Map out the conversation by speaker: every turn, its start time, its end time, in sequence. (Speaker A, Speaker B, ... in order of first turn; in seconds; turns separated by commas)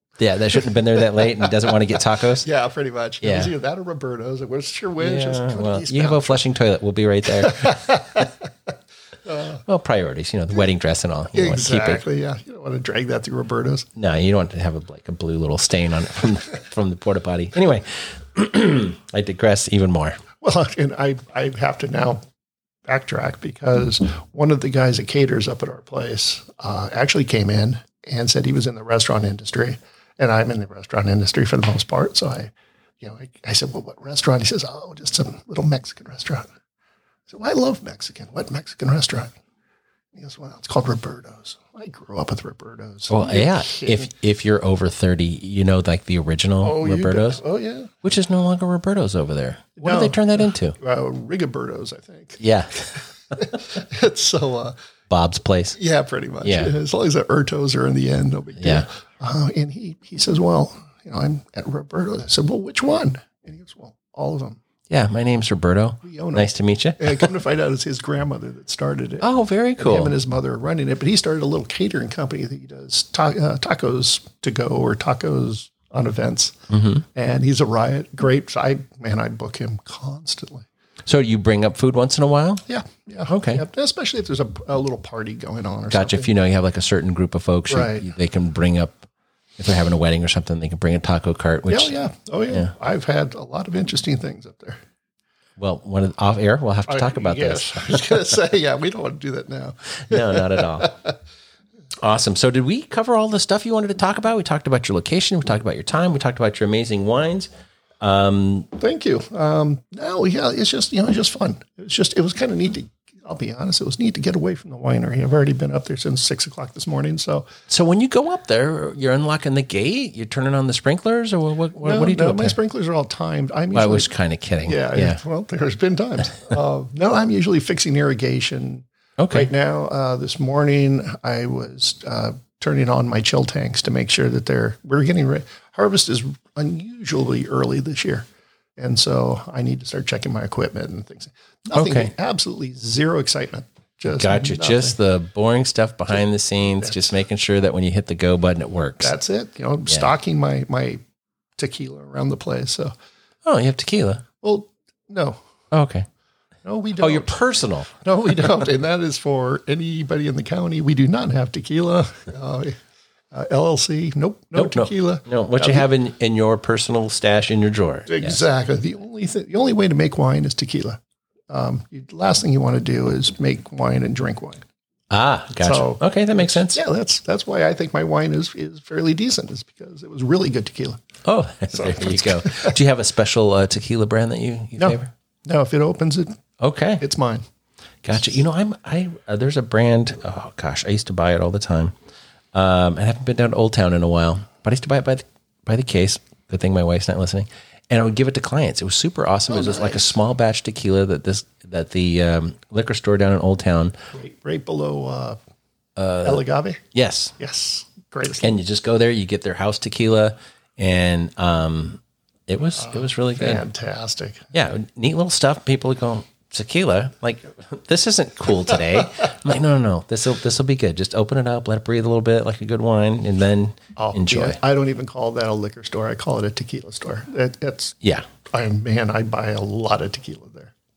Speaker A: 0.2-2.5, Speaker B: 0.6-1.7, Speaker B: 2.4-6.5, Speaker A: 3.2-3.5, Speaker A: 5.0-8.3, Speaker B: 7.3-8.5, Speaker B: 9.3-9.6, Speaker A: 9.7-12.0, Speaker B: 11.3-13.9, Speaker A: 14.0-20.2, Speaker B: 20.4-22.2, Speaker B: 22.9-36.5, Speaker B: 37.3-39.4, Speaker B: 40.1-44.1, Speaker A: 43.1-47.4, Speaker B: 46.6-47.9, Speaker A: 48.0-50.8, Speaker B: 49.8-52.4, Speaker A: 52.4-53.4, Speaker B: 53.0-54.8, Speaker A: 55.1-55.8, Speaker B: 55.8-64.6, Speaker A: 56.4-56.7, Speaker A: 58.6-58.9, Speaker A: 64.9-67.3, Speaker B: 66.0-76.6, Speaker A: 69.2-70.1, Speaker A: 76.7-77.0, Speaker B: 77.1-80.7, Speaker A: 81.1-82.6, Speaker B: 82.7-86.3, Speaker A: 83.3-83.6, Speaker A: 85.9-91.9, Speaker B: 87.7-88.1, Speaker B: 91.7-94.8, Speaker A: 95.6-98.2, Speaker B: 96.9-101.2, Speaker A: 100.1-100.9, Speaker A: 102.0-107.5, Speaker A: 108.0-108.7, Speaker B: 108.8-117.5, Speaker A: 117.7-122.6, Speaker B: 121.8-124.1, Speaker A: 123.7-125.2, Speaker B: 124.7-138.3, Speaker A: 129.2-129.5, Speaker B: 138.8-145.0, Speaker A: 141.7-142.1, Speaker A: 144.1-149.1, Speaker B: 146.2-147.1, Speaker B: 149.0-151.0, Speaker B: 151.6-152.9, Speaker A: 153.4-154.2, Speaker B: 154.4-155.4, Speaker A: 155.7-156.1, Speaker B: 156.7-157.4, Speaker A: 157.0-158.5, Speaker B: 158.0-162.8, Speaker B: 163.3-165.9, Speaker A: 164.5-168.4, Speaker B: 168.1-171.0, Speaker B: 171.5-174.6, Speaker A: 175.1-176.8, Speaker B: 175.6-181.0, Speaker A: 181.2-185.1, Speaker B: 181.7-182.8, Speaker B: 184.8-186.4, Speaker A: 186.6-187.0, Speaker B: 187.0-187.4, Speaker A: 188.0-191.9, Speaker A: 192.5-203.9, Speaker B: 199.5-200.2, Speaker B: 204.1-205.4, Speaker A: 206.0-206.4, Speaker B: 206.2-206.8, Speaker A: 206.9-207.3, Speaker B: 207.4-208.6, Speaker A: 208.4-213.6, Speaker B: 212.8-214.5, Speaker A: 214.5-224.6, Speaker B: 224.0-230.7